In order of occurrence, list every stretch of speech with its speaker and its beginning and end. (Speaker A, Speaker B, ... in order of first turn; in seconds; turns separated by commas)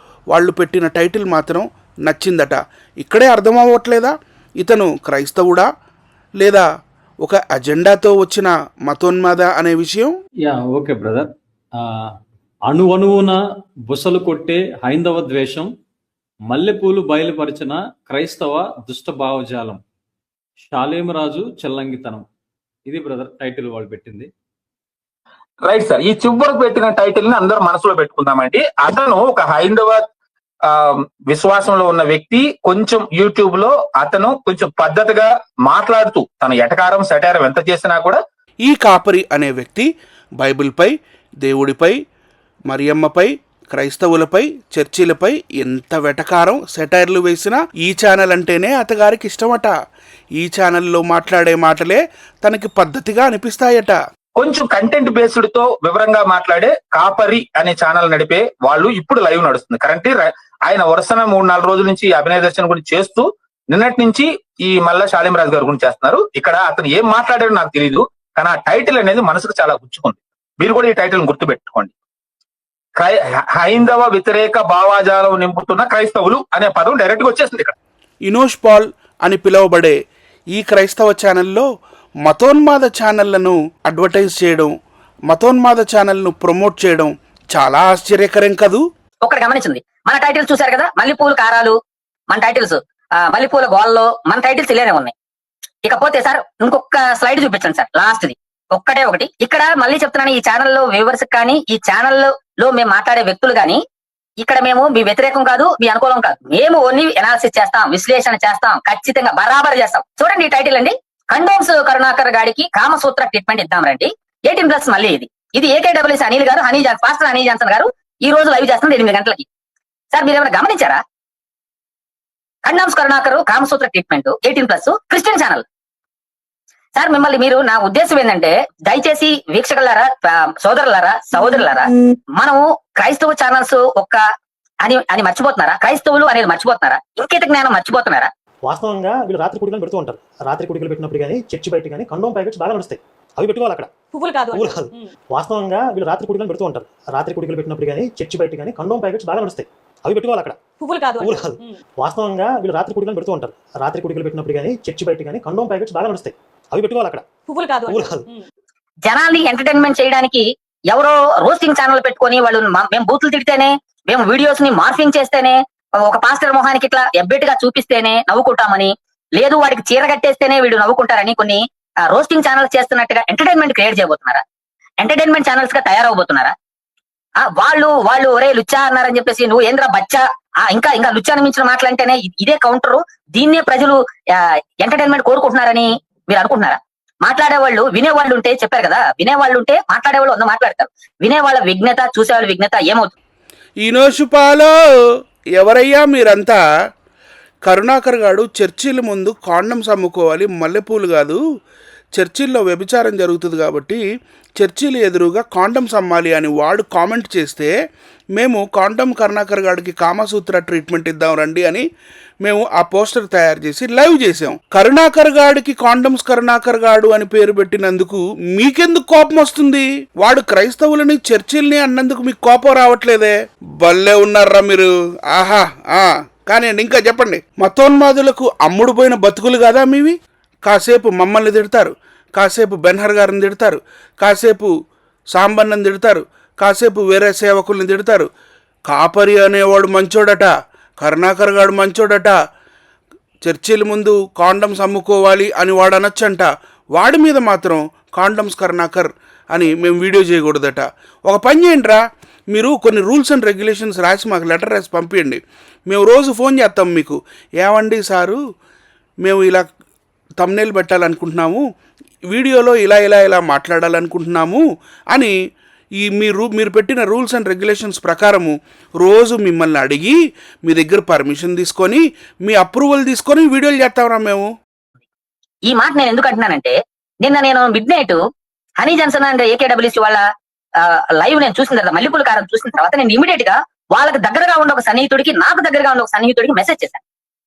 Speaker A: 0.3-5.7, Speaker A: 6.4-6.7, Speaker A: 7.2-10.1, Speaker B: 10.4-12.1, Speaker B: 12.7-15.7, Speaker B: 16.5-19.8, Speaker B: 20.6-22.2, Speaker B: 22.9-24.3, Speaker C: 25.6-30.0, Speaker C: 30.7-38.2, Speaker A: 38.6-39.9, Speaker A: 40.4-40.9, Speaker A: 41.4-41.9, Speaker A: 42.7-49.7, Speaker A: 50.4-54.0, Speaker C: 54.4-71.9, Speaker C: 73.0-77.7, Speaker A: 78.2-80.0, Speaker A: 80.5-81.7, Speaker A: 82.2-84.7, Speaker A: 85.3-88.8, Speaker D: 89.2-91.7, Speaker D: 92.3-95.1, Speaker D: 95.8-103.8, Speaker D: 104.4-119.5, Speaker D: 120.1-121.0, Speaker D: 122.6-125.6, Speaker D: 127.0-134.2, Speaker D: 134.8-138.3, Speaker E: 138.6-143.9, Speaker F: 144.1-145.1, Speaker E: 144.5-150.6, Speaker F: 150.7-151.8, Speaker E: 151.2-157.3, Speaker F: 157.4-158.4, Speaker E: 157.9-158.2, Speaker D: 159.1-174.4, Speaker D: 175.0-176.5, Speaker D: 177.4-193.1, Speaker A: 193.8-194.7, Speaker A: 195.6-196.6, Speaker A: 197.6-201.4, Speaker A: 202.1-204.0, Speaker A: 204.6-207.7, Speaker A: 208.3-211.8, Speaker A: 212.4-234.7, Speaker A: 235.3-238.3, Speaker A: 238.9-242.3, Speaker A: 243.4-252.0, Speaker A: 252.5-258.4, Speaker A: 259.2-259.7, Speaker A: 260.4-261.6, Speaker A: 262.3-265.3, Speaker A: 266.0-274.5, Speaker D: 275.7-278.2, Speaker D: 278.8-280.2, Speaker D: 280.8-287.0